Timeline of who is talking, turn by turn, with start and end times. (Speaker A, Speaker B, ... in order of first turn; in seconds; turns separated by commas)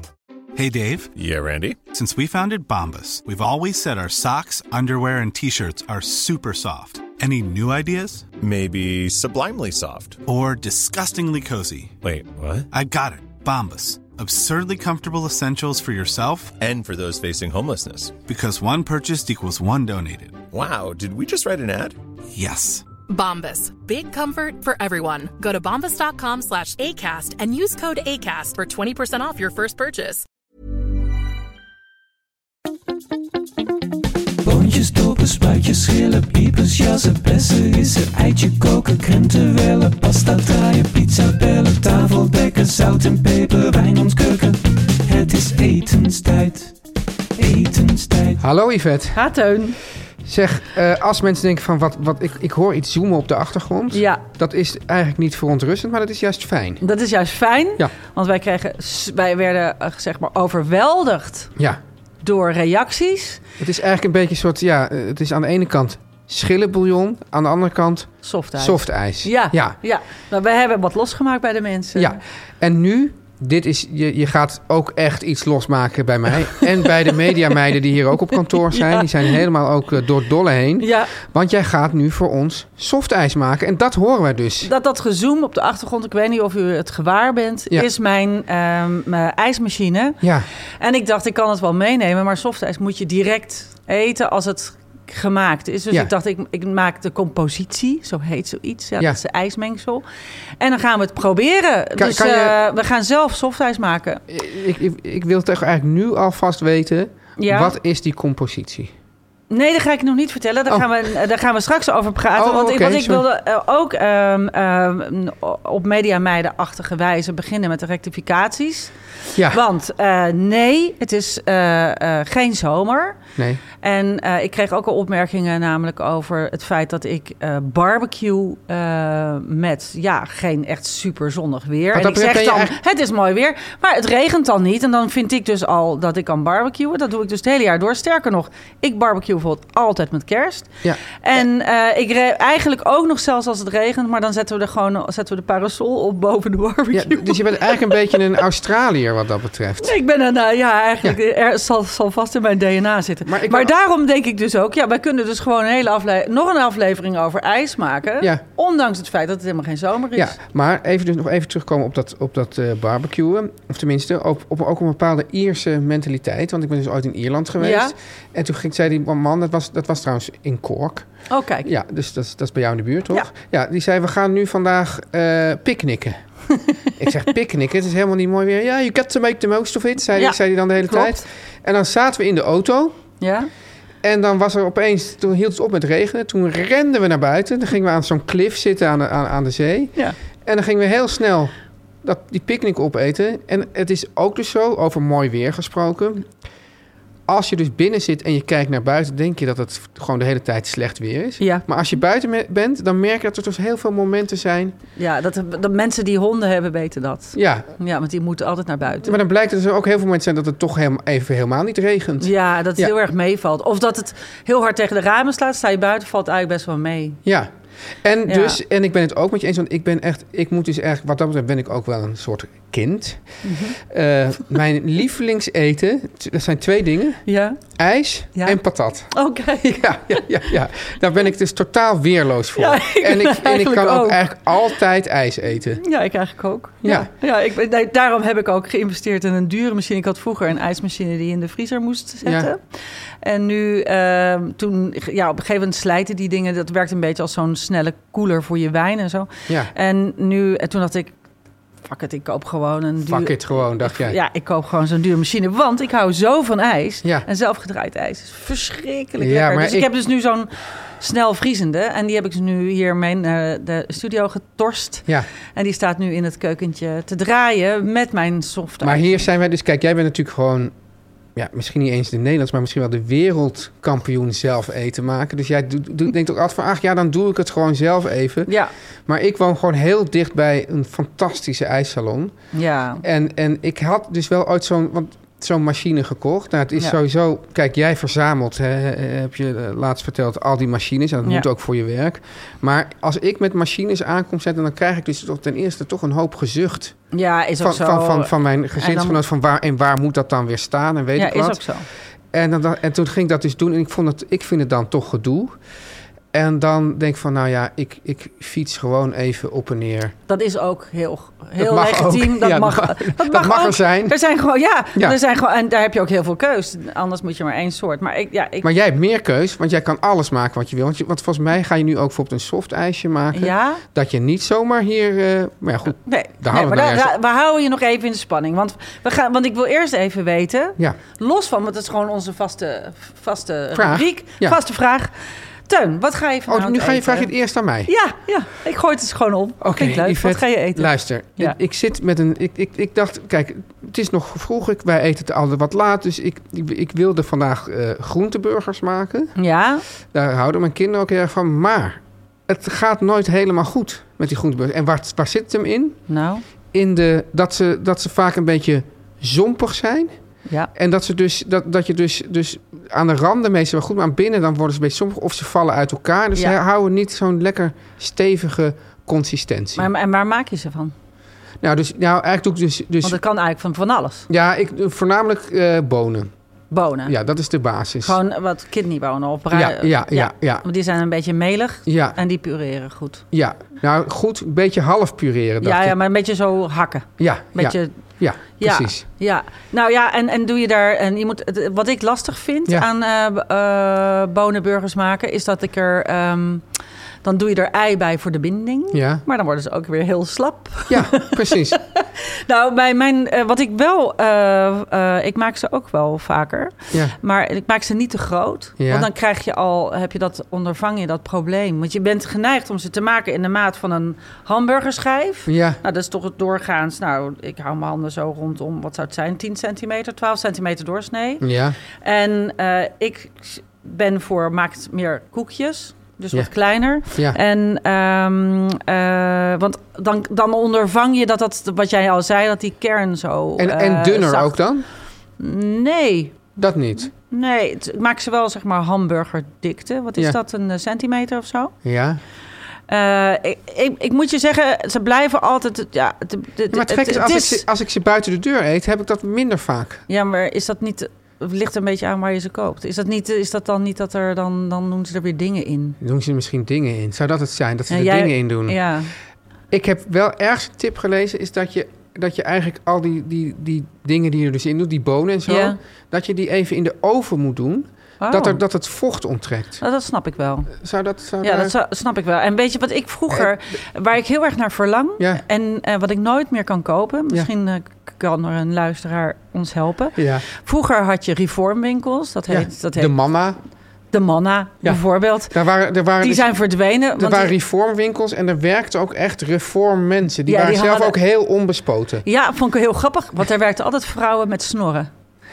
Speaker A: 0.5-1.1, Speaker B: 1.1-1.8, Speaker A: 1.9-8.3, Speaker B: 8.4-10.2, Speaker A: 10.2-11.9, Speaker B: 12.0-12.7, Speaker A: 12.7-16.6, Speaker B: 16.6-18.2, Speaker A: 18.3-20.4, Speaker B: 20.5-21.9, Speaker A: 22.3-22.9, Speaker C: 23.1-30.2, Speaker D: 34.4-46.7, Speaker D: 47.4-48.4, Speaker E: 48.3-49.2, Speaker F: 49.1-49.8, Speaker E: 50.2-56.8, Speaker F: 53.9-54.2, Speaker F: 56.8-61.5, Speaker F: 62.2-63.4, Speaker E: 63.6-69.8, Speaker F: 68.2-72.2, Speaker E: 71.9-84.7, Speaker F: 77.0-77.5, Speaker F: 78.4-79.4, Speaker F: 80.8-81.1, Speaker F: 84.6-90.2, Speaker F: 90.8-100.0, Speaker F: 100.6-104.2, Speaker E: 102.0-102.6, Speaker E: 104.3-108.9, Speaker F: 107.4-107.7, Speaker F: 109.5-123.2, Speaker E: 112.3-113.2, Speaker E: 119.3-119.6, Speaker F: 123.8-147.9, Speaker E: 131.9-132.7, Speaker E: 146.9-149.9, Speaker F: 149.8-160.3, Speaker E: 153.2-153.7, Speaker E: 160.2-171.1, Speaker F: 167.6-167.9, Speaker F: 171.3-171.7, Speaker E: 171.6-176.2, Speaker E: 177.0-183.0, Speaker F: 180.2-181.2, Speaker F: 183.2-183.5, Speaker E: 184.0-191.5, Speaker E: 192.0-196.3, Speaker E: 197.3-204.7, Speaker F: 201.4-201.7, Speaker F: 205.0-209.2, Speaker E: 207.3-207.7, Speaker E: 209.0-212.9, Speaker F: 212.2-217.2, Speaker E: 217.2-217.5, Speaker E: 218.0-223.2, Speaker F: 218.3-218.6, Speaker F: 223.4-223.8, Speaker E: 223.7-235.8, Speaker F: 227.2-227.6, Speaker F: 228.3-228.6, Speaker F: 229.1-230.3, Speaker F: 232.6-234.2, Speaker F: 235.8-251.2, Speaker E: 236.8-237.1, Speaker E: 242.2-242.5, Speaker F: 251.8-269.2, Speaker E: 253.1-254.2, Speaker E: 259.2-259.9, Speaker E: 268.8-270.7, Speaker E: 271.3-278.5, Speaker F: 278.5-278.7, Speaker E: 279.1-282.3, Speaker F: 282.5-283.0, Speaker E: 283.0-297.0, Speaker F: 297.1-299.2, Speaker E: 297.6-301.6, Speaker F: 301.2-301.8, Speaker E: 302.3-305.6, Speaker E: 306.3-310.1, Speaker F: 310.3-318.7, Speaker E: 311.6-314.1, Speaker E: 318.6-327.1, Speaker F: 323.3-323.8, Speaker F: 325.9-335.1, Speaker E: 333.7-334.6, Speaker F: 335.7-337.3, Speaker E: 336.5-337.9, Speaker F: 337.8-341.6, Speaker E: 339.6-349.3, Speaker F: 349.4-349.8, Speaker E: 350.1-356.0, Speaker F: 356.1-356.4, Speaker E: 356.7-360.1, Speaker E: 360.7-369.9, Speaker F: 369.8-370.9, Speaker E: 371.6-373.2, Speaker F: 373.0-374.3, Speaker E: 374.3-376.3, Speaker F: 376.7-377.1, Speaker E: 377.0-378.2, Speaker F: 378.0-383.2, Speaker E: 379.5-380.6, Speaker E: 381.9-382.2, Speaker E: 383.3-386.0, Speaker F: 385.6-387.9, Speaker E: 387.2-389.0, Speaker F: 388.4-396.6, Speaker F: 397.2-434.6, Speaker E: 398.9-399.2, Speaker E: 400.9-401.8, Speaker E: 408.8-409.1, Speaker E: 415.4-415.8, Speaker E: 421.4-421.8, Speaker E: 427.1-427.4, Speaker E: 433.6-434.8, Speaker F: 435.4-436.4, Speaker E: 436.6-437.1, Speaker F: 437.1-441.7, Speaker E: 441.8-442.2, Speaker F: 442.9-447.6, Speaker E: 446.7-450.0, Speaker F: 450.1-456.0, Speaker E: 456.0-458.8, Speaker F: 457.9-459.1, Speaker E: 459.7-469.8, Speaker F: 465.5-465.8, Speaker F: 468.2-468.6, Speaker F: 469.8-470.7, Speaker E: 470.7-471.7, Speaker F: 471.4-483.1, Speaker E: 480.2-480.4, Speaker E: 482.5-483.6, Speaker F: 484.1-485.6, Speaker E: 484.8-486.5, Speaker F: 486.2-487.5, Speaker E: 487.1-492.2, Speaker F: 490.4-491.1, Speaker F: 492.2-495.1